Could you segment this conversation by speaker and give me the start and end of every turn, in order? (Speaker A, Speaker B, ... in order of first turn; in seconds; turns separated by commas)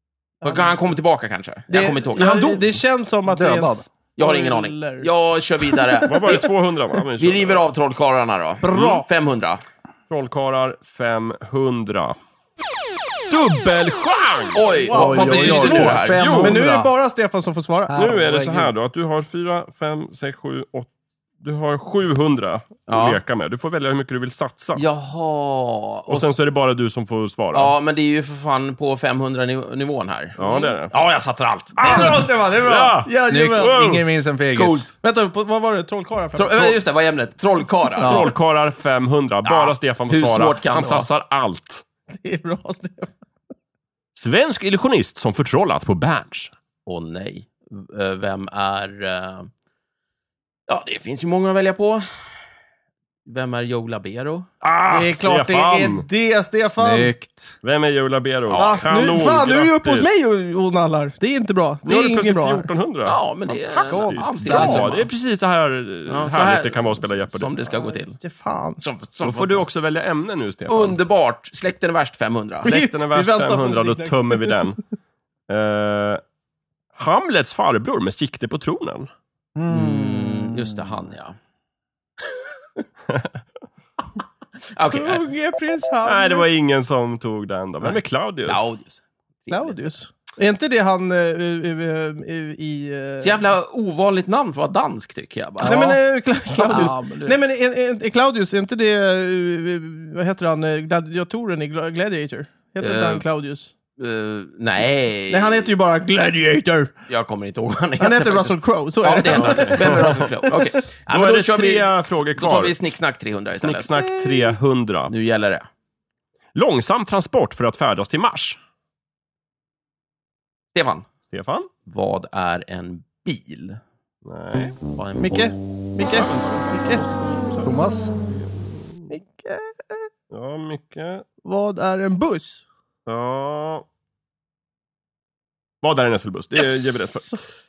Speaker A: 0.4-0.8, Speaker B: 0.4-2.7, Speaker A: 1.7-5.1, Speaker C: 3.3-3.8, Speaker B: 4.2-6.5, Speaker A: 5.7-6.0, Speaker D: 6.0-7.6, Speaker B: 7.2-9.6, Speaker A: 8.6-9.1, Speaker D: 8.7-9.0, Speaker D: 10.1-12.2, Speaker D: 13.3-14.8, Speaker B: 14.5-16.2, Speaker A: 14.8-18.0, Speaker C: 14.9-16.9, Speaker D: 15.3-16.6, Speaker C: 17.9-18.7, Speaker D: 17.9-20.9, Speaker D: 21.4-24.8, Speaker B: 22.9-23.2, Speaker B: 24.8-26.3, Speaker D: 26.1-27.7, Speaker B: 27.5-32.1, Speaker D: 30.4-30.9, Speaker D: 31.8-34.0, Speaker A: 31.8-33.9, Speaker C: 33.3-34.9, Speaker B: 34.5-34.9, Speaker A: 35.0-36.8, Speaker B: 36.3-38.3, Speaker C: 38.0-38.3, Speaker D: 38.0-41.8, Speaker B: 39.4-41.1, Speaker A: 42.1-43.1, Speaker D: 44.1-46.5, Speaker B: 46.9-49.5, Speaker B: 50.7-52.0, Speaker B: 53.2-54.5, Speaker D: 54.6-56.0, Speaker A: 54.9-57.1, Speaker C: 56.7-57.5, Speaker D: 57.6-60.1, Speaker B: 58.5-59.2, Speaker A: 58.5-62.7, Speaker D: 61.8-67.6, Speaker B: 63.0-65.1, Speaker C: 63.9-65.0, Speaker B: 66.1-68.2, Speaker A: 67.7-68.8, Speaker B: 68.8-69.6, Speaker D: 69.2-71.0, Speaker B: 70.7-72.7, Speaker D: 72.6-74.8, Speaker A: 72.6-74.6, Speaker D: 75.5-76.2, Speaker D: 77.0-79.1, Speaker C: 79.5-80.8, Speaker B: 79.7-81.3, Speaker B: 84.7-85.3, Speaker A: 84.9-86.5, Speaker D: 86.0-88.7, Speaker B: 87.8-89.9, Speaker A: 89.5-93.4, Speaker B: 93.2-96.0, Speaker C: 95.6-96.0, Speaker A: 95.6-103.7, Speaker B: 96.5-96.9, Speaker C: 96.5-97.5, Speaker B: 102.8-103.2, Speaker B: 104.0-105.7, Speaker A: 105.3-106.9, Speaker B: 107.1-113.9, Speaker A: 108.0-110.5, Speaker D: 109.8-110.2, Speaker D: 111.1-112.8, Speaker D: 113.5-115.1, Speaker A: 114.0-114.5, Speaker B: 115.1-115.6, Speaker D: 116.5-118.6, Speaker B: 120.7-121.1, Speaker D: 121.3-121.7, Speaker B: 121.8-123.8, Speaker D: 124.2-124.8, Speaker B: 124.9-125.5, Speaker A: 125.2-127.0, Speaker D: 126.0-127.8, Speaker C: 127.6-128.1, Speaker D: 128.3-129.1, Speaker A: 129.1-130.1, Speaker D: 130.3-131.2, Speaker A: 131.4-132.6, Speaker D: 133.1-133.8, Speaker D: 135.8-137.4